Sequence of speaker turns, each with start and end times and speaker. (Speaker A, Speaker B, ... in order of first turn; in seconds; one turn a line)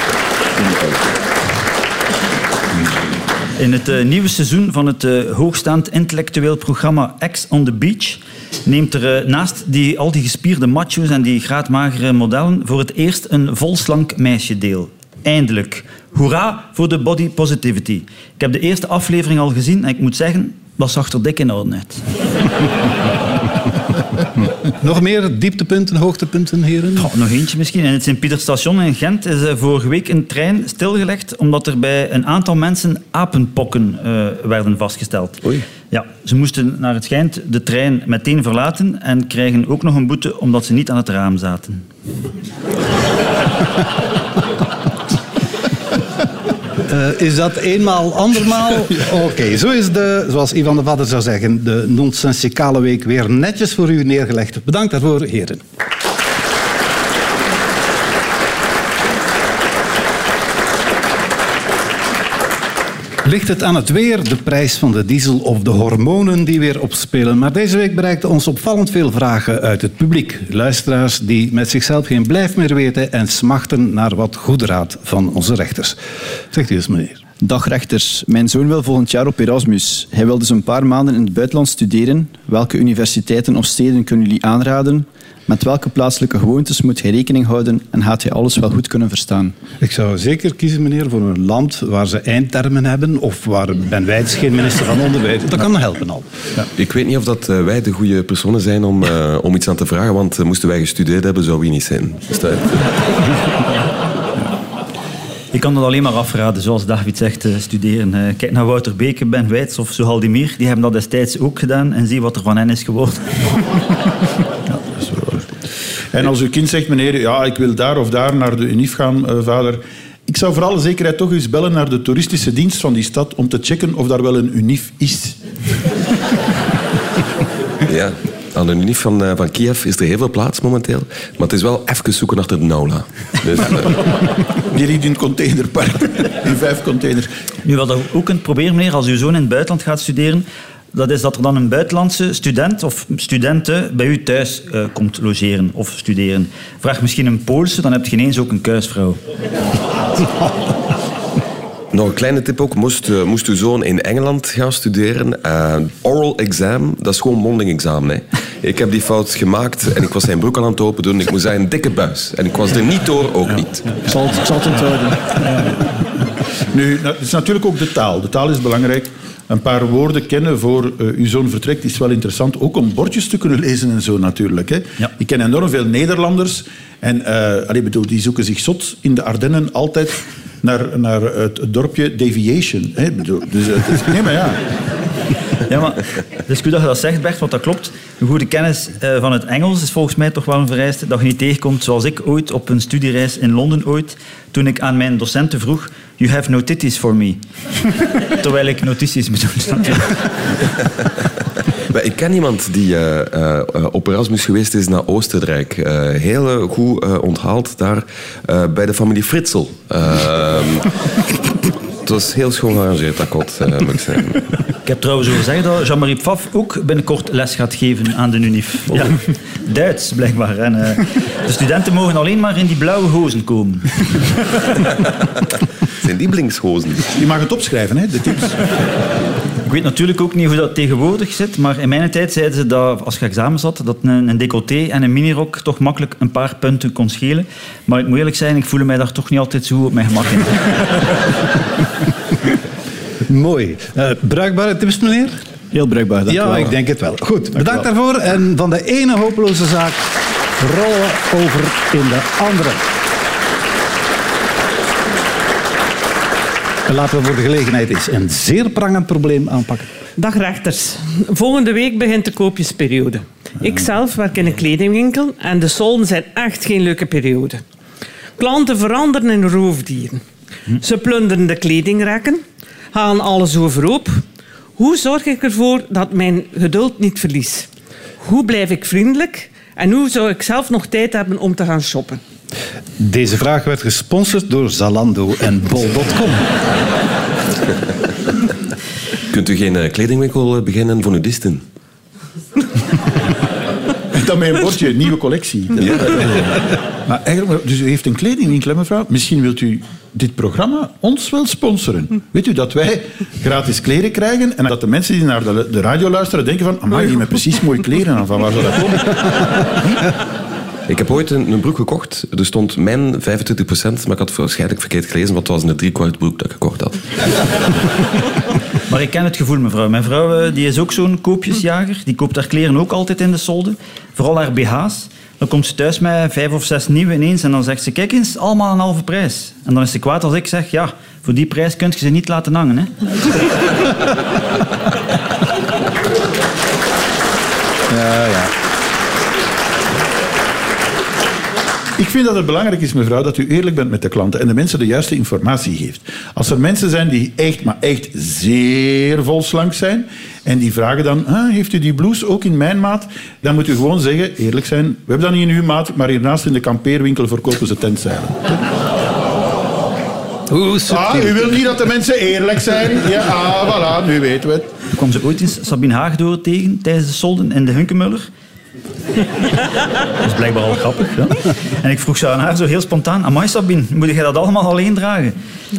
Speaker A: 3.6-22.0
Speaker B: 24.7-27.1
Speaker A: 27.0-41.9
Speaker B: 46.9-55.6
Speaker B: 63.2-76.0
Speaker B: 76.5-77.2
Speaker C: 77.4-89.6
Speaker B: 89.8-96.3
Speaker D: 96.8-103.0
Speaker A: 105.5-113.6
Speaker E: 114.7-115.5
Speaker E: 116.1-125.4
Speaker D: 127.8-134.1
Speaker E: 134.7-137.3
Speaker A: 137.7-149.2
Speaker D: 151.9-164.0
Speaker C: 164.1-165.7
Speaker E: 166.6-184.6
Speaker A: 185.7-197.4
Speaker A: 198.3-200.5
Speaker D: 201.9-210.9
Speaker D: 212.0-214.6
Speaker A: 214.8-224.2
Speaker D: 226.0-227.1
Speaker E: 227.1-228.6
Speaker A: 229.7-241.2
Speaker B: 243.3-245.4
Speaker C: 245.7-246.7
Speaker B: 246.3-250.1
Speaker B: 250.6-252.8
Speaker B: 256.9-259.9
Speaker F: 260.2-267.6
Speaker F: 268.4-274.2
Speaker F: 274.8-277.7
Speaker F: 278.2-282.2
Speaker B: 283.0-286.5
Speaker D: 289.3-291.6
Speaker E: 294.1-296.2
Speaker D: 295.8-296.5
Speaker E: 297.1-309.2
Speaker D: 310.9-317.4
Speaker A: 318.9-332.9
Speaker B: 337.9-338.5
Speaker E: 342.0-358.6
Speaker B: 360.5-361.5
Speaker E: 360.9-364.7
Speaker A: 364.9-368.3
Speaker A: 370.2-375.4